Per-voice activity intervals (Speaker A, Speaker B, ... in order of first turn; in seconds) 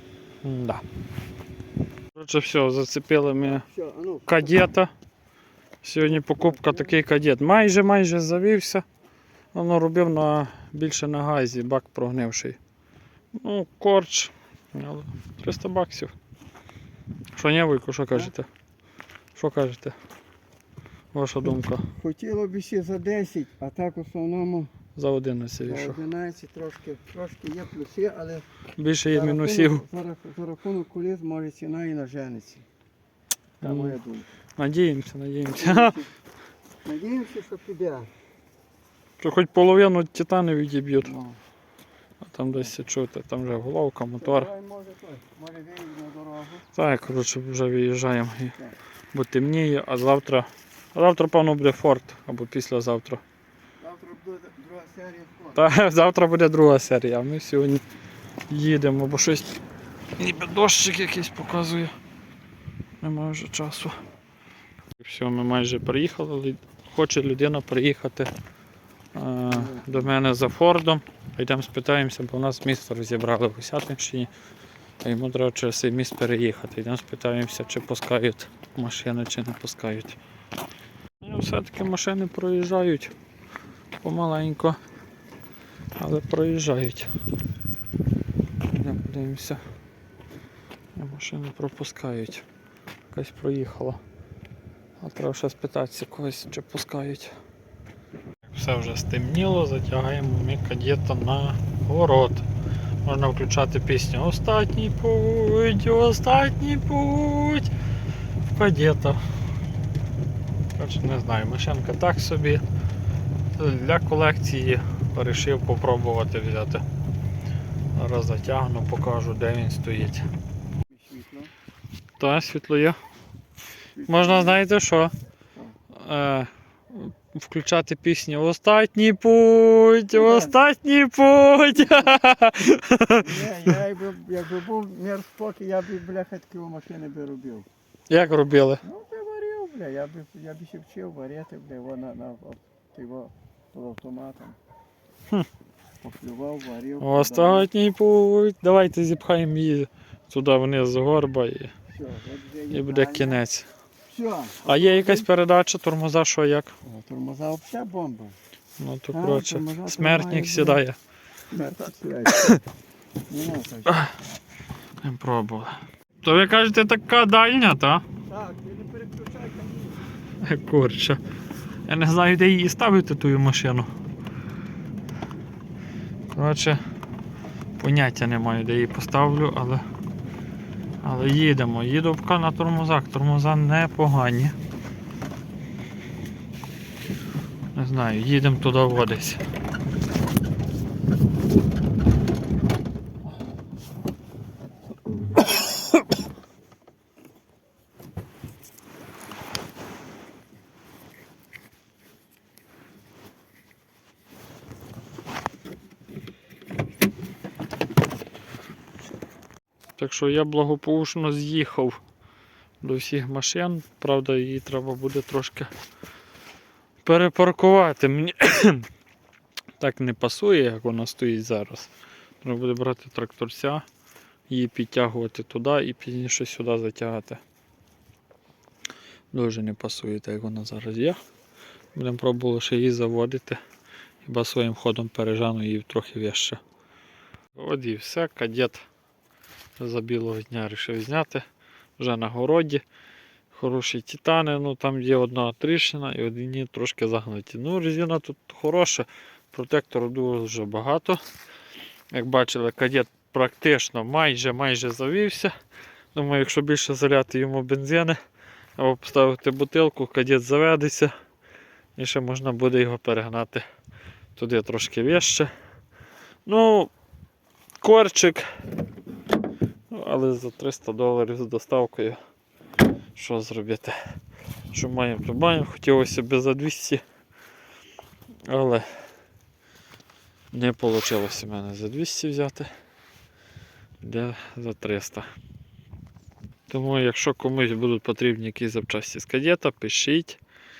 Speaker A: 0.4-0.8, 2.1-3.6, 4.3-4.9, 5.8-8.8, 9.5-12.6, 13.4-16.1, 17.3-18.5, 19.3-19.9, 21.1-21.9, 24.9-26.0, 28.8-29.8, 33.6-34.0, 34.6-36.0, 39.2-41.1, 42.2-44.5, 46.7-48.5, 49.1-53.2, 55.5-57.8, 58.5-59.5, 60.2-61.9, 63.0-63.9, 65.0-68.3, 69.1-74.3, 75.0-80.2, 81.2-83.1, 84.0-84.8, 86.0-87.1, 88.7-89.6, 91.0-92.4, 93.1-94.0, 95.0-97.3, 98.5-102.4, 103.0-107.7, 108.5-109.2, 110.7-112.6, 113.5-116.8, 117.9-120.2, 122.2-123.0, 124.1-125.1, 125.9-133.4, 138.1-138.8, 147.0-151.7, 152.7-153.7, 154.6-156.7, 158.8-161.0, 162.3-162.6, 165.0-168.1, 170.4-171.2, 171.8-173.9, 176.3-176.8, 177.8-179.8, 181.0-184.6, 187.7-189.4, 210.0-212.0, 212.8-215.7, 217.0-218.8, 219.8-221.9, 222.4-223.8, 224.5-227.4, 229.3-231.2, 231.9-233.6, 234.2-236.6, 237.5-238.8, 239.8-241.4, 242.0-242.8, 243.5-251.2, 252.1-255.5, 256.1-258.2, 258.8-261.1, 261.9-263.6, 264.4-265.5, 266.4-266.9, 267.8-268.4, 269.9-272.2, 273.1-274.0, 274.7-277.0, 278.5-278.9, 280.5-282.7, 284.0-285.3, 286.7-290.4
Speaker B: 3.4-4.5, 6.0-7.0, 21.4-24.7, 25.6-28.5, 29.1-32.6, 33.6-34.3, 35.5-36.1, 36.8-38.1, 41.0-41.4, 44.2-46.6, 53.8-55.6, 69.5-70.1, 120.9-121.5, 124.0-124.6, 130.1-130.6, 131.8-132.1, 133.2-137.7, 138.8-144.6, 146.0-147.7, 151.9-153.4, 154.1-155.3, 156.8-158.4, 159.1-160.8, 161.5-162.6, 163.3-164.1, 168.3-170.1